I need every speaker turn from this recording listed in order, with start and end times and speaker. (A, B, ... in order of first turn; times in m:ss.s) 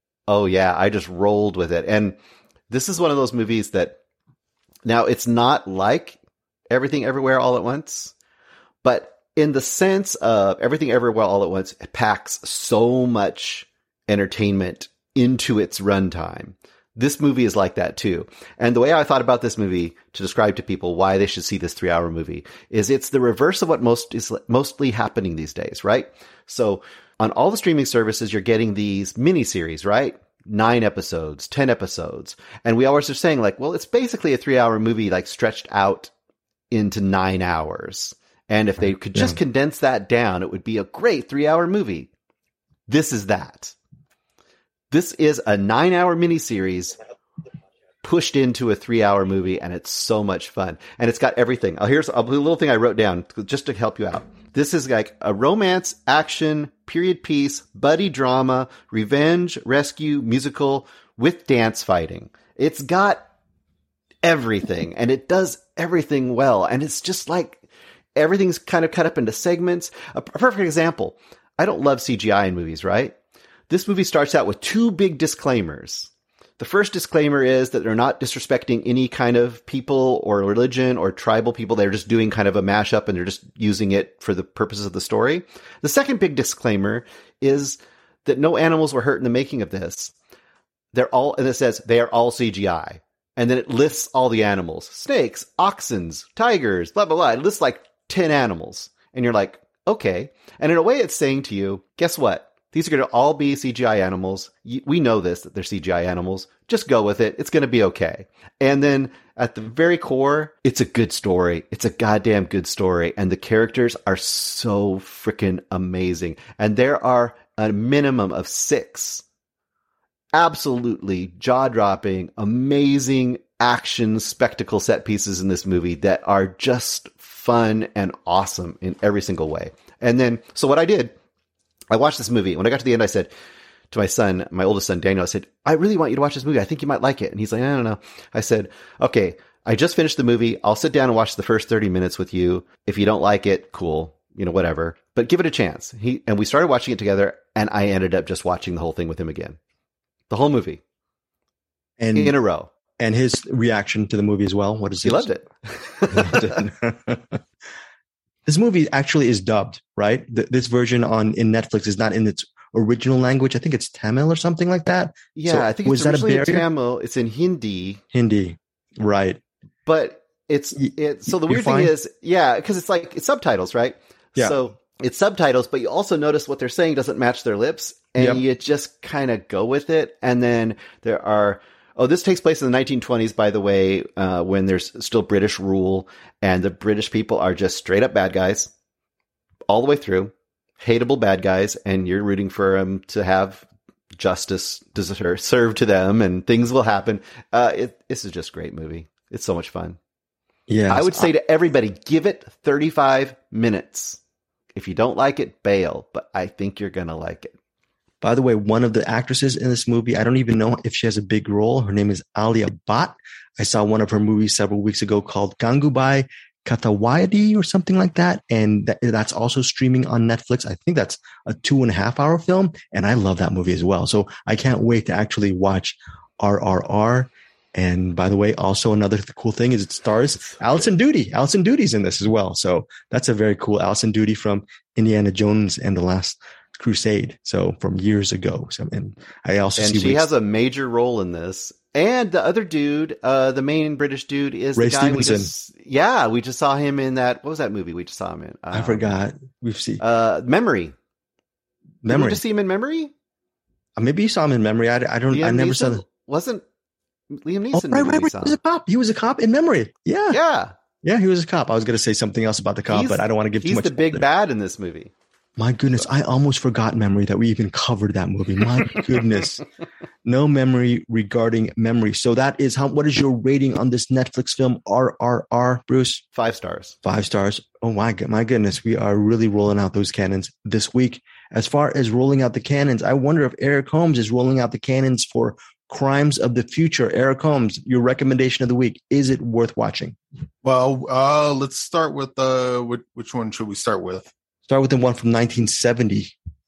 0:00.3-0:02.2 A
0:02.7-0:04.0 A
0:04.8-0:06.2 A
0:06.7-0:08.1 A
0:08.8-0:36.1 A
0:36.7-0:42.1 A
0:42.9-0:43.7 A
0:44.9-0:47.0 A
0:48.0-1:03.3 A
1:04.2-1:07.6 A
1:08.2-1:13.2 A
1:13.7-1:30.1 A
1:30.9-1:59.2 A
2:00.3-2:11.1 A
2:11.9-2:13.3 A
2:13.9-2:29.6 A
2:30.3-2:30.8 A
2:32.0-2:32.3 B
2:32.1-2:32.7 A
2:33.0-2:35.3 B
2:35.0-2:36.6 A
2:36.1-2:37.4 B
2:38.4-2:46.6 B
2:45.3-2:48.0 A
2:48.1-2:49.4 B
2:49.8-3:08.7 A
2:50.8-2:51.9 B
3:09.7-3:20.0 A
3:20.7-3:21.3 B
3:20.9-3:24.2 A
3:24.7-3:27.5 A
3:28.2-4:00.2 B
3:59.8-4:09.2 A
4:04.8-4:05.5 B
4:08.7-4:10.0 B
4:10.0-4:10.9 A
4:12.0-4:12.4 B
4:12.1-4:13.1 A
4:14.0-4:16.0 B
4:15.3-4:16.6 A
4:17.3-4:18.6 A
4:17.7-4:20.4 B
4:20.3-4:20.7 A
4:21.0-4:24.2 B
4:22.9-4:25.1 A
4:25.6-4:29.6 B
4:30.2-4:36.2 B
4:36.3-4:36.9 A
4:37.0-4:50.2 B
4:50.6-4:54.3 C
4:54.7-4:56.3 B